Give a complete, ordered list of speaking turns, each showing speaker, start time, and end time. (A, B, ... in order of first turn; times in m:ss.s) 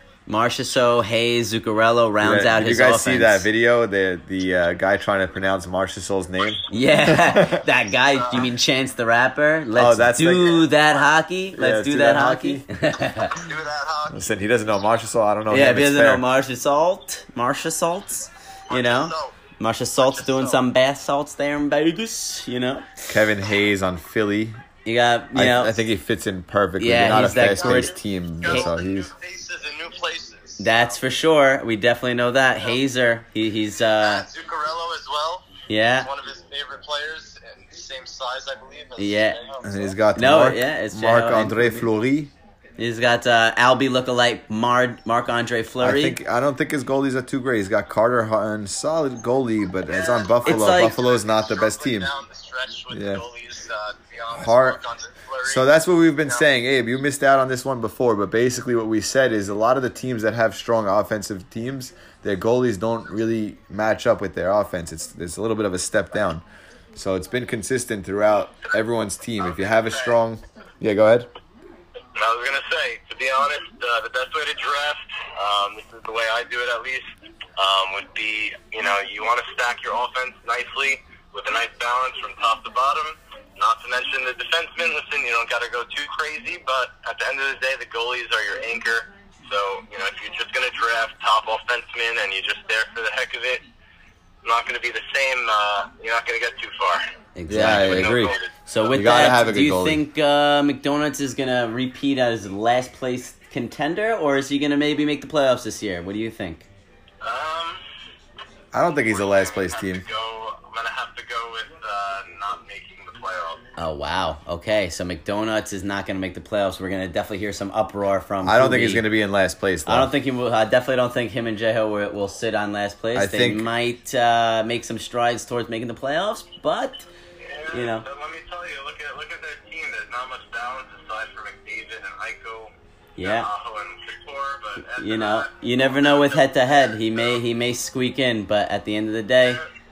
0:00.3-0:03.5 A
0:02.2-0:07.6 B
0:06.7-0:13.4 A
0:08.1-0:08.4 C
0:09.7-0:10.6 B
0:10.8-0:11.1 C
0:11.5-0:12.6 B
0:13.2-0:14.2 C
0:14.1-0:16.2 B
0:15.5-0:22.9 A
0:18.7-0:19.4 C
0:20.0-0:20.6 C
0:23.1-0:24.6 B
0:24.8-0:25.8 A
0:25.3-0:29.1 B
0:26.8-0:28.7 A
0:27.0-0:31.0 C
0:30.6-0:34.3 A
0:34.0-0:39.9 C
0:35.7-0:36.1 A
0:39.0-0:39.4 A
0:39.6-0:42.3 B
0:40.1-0:41.9 A
0:42.8-0:46.2 A
0:45.8-0:52.1 B
0:49.9-0:56.4 C
0:50.4-0:51.0 A
0:52.9-0:53.2 B
0:54.4-0:54.8 B
0:55.4-1:06.4 B
1:07.0-1:11.3 B
1:08.6-1:10.2 C
1:12.2-1:17.0 C
1:17.6-1:33.6 C
1:34.4-1:37.0 C
1:37.4-1:46.7 A
1:37.5-1:40.0 B
1:37.7-1:38.6 C
1:47.2-1:47.8 C
1:48.7-1:50.0 B
1:48.9-1:53.6 C
1:53.8-1:59.0 A
1:58.4-2:00.1 B
1:59.8-2:07.1 A
2:03.1-2:03.7 B
2:07.4-2:17.4 C
2:07.7-2:08.1 A
2:13.2-2:13.5 A
2:14.9-2:19.6 A
2:19.4-2:19.7 C